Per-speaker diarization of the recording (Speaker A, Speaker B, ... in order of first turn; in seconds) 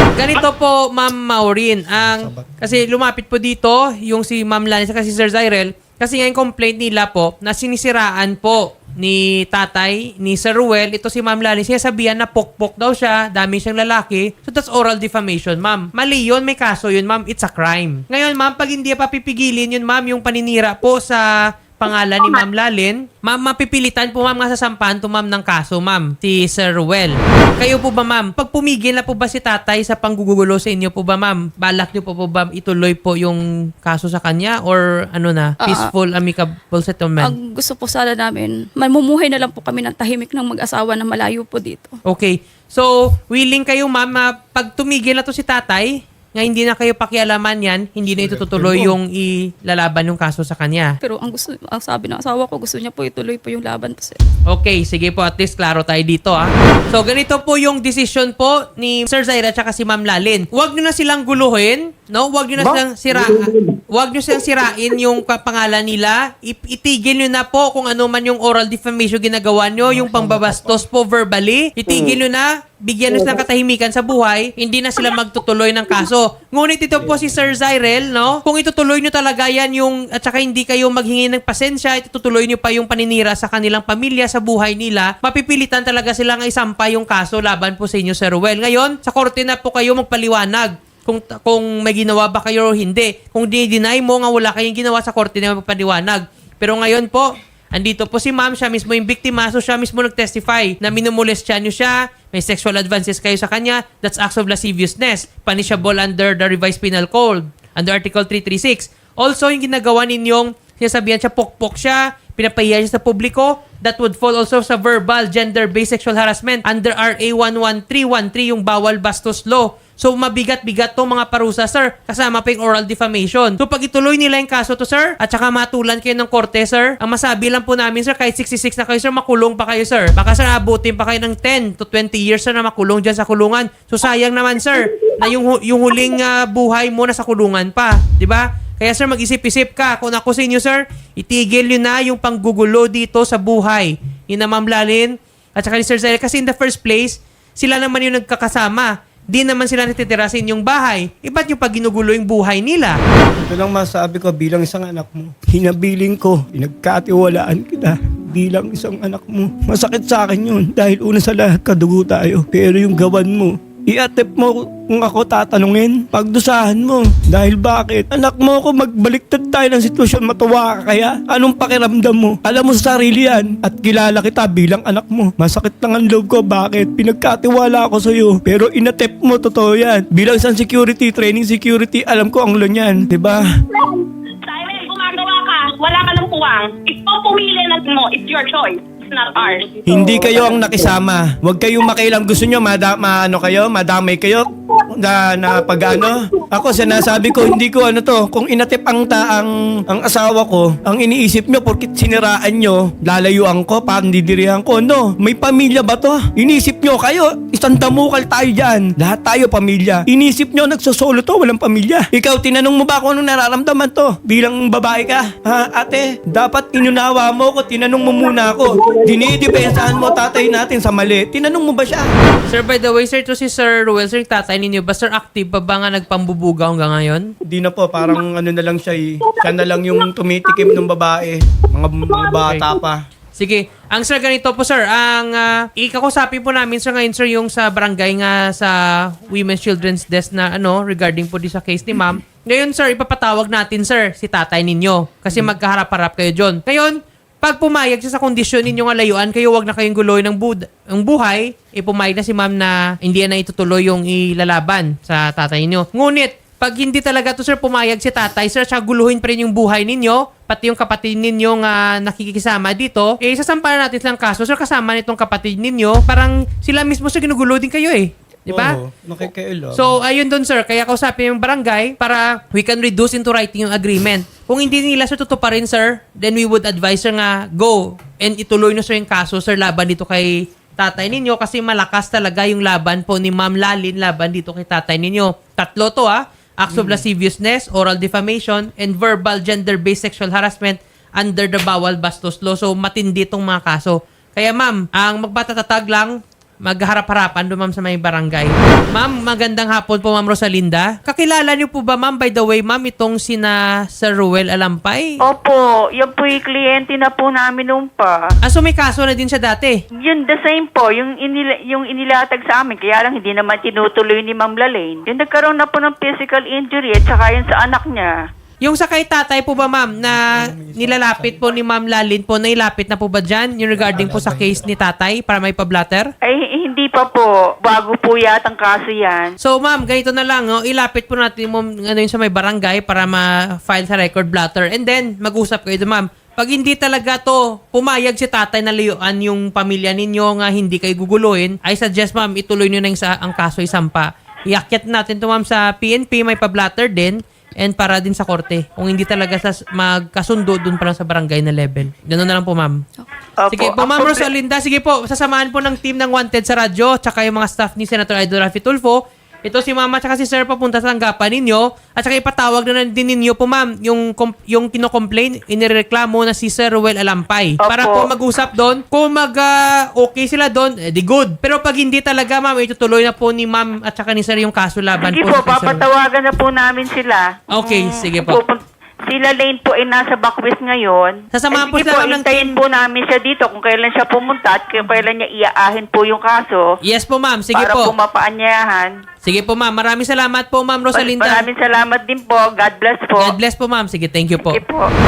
Speaker A: 0.2-21.2, 21.8-37.3, 42.0-50.9, 54.5-153.0, 222.5-227.3, 233.4-238.7, 239.3-305.2, 308.4-309.8, 318.6-326.1, 329.4-352.8, 353.5-375.8, 377.5-378.4, 381.3-382.6, 386.8-387.9, 389.2-391.5, 393.2-394.6
Speaker B: 2.0-2.8, 48.1-49.0, 69.8-70.8, 153.4-183.5, 189.8-222.1, 227.5-233.0, 268.5-269.9, 286.7-287.1, 320.0-321.4, 323.7-324.6
Speaker C: 35.6-35.9, 37.2-41.9, 51.0-54.2
Speaker D: 183.7-189.8, 195.6-196.1, 196.7-197.5, 218.7-220.5, 229.4-230.8, 232.1-232.4
Speaker E: 305.2-308.1, 310.0-318.1, 326.2-329.3, 353.4-354.3, 367.6-368.1, 375.0-386.6, 387.5-388.9, 390.9-393.4, 394.4-394.9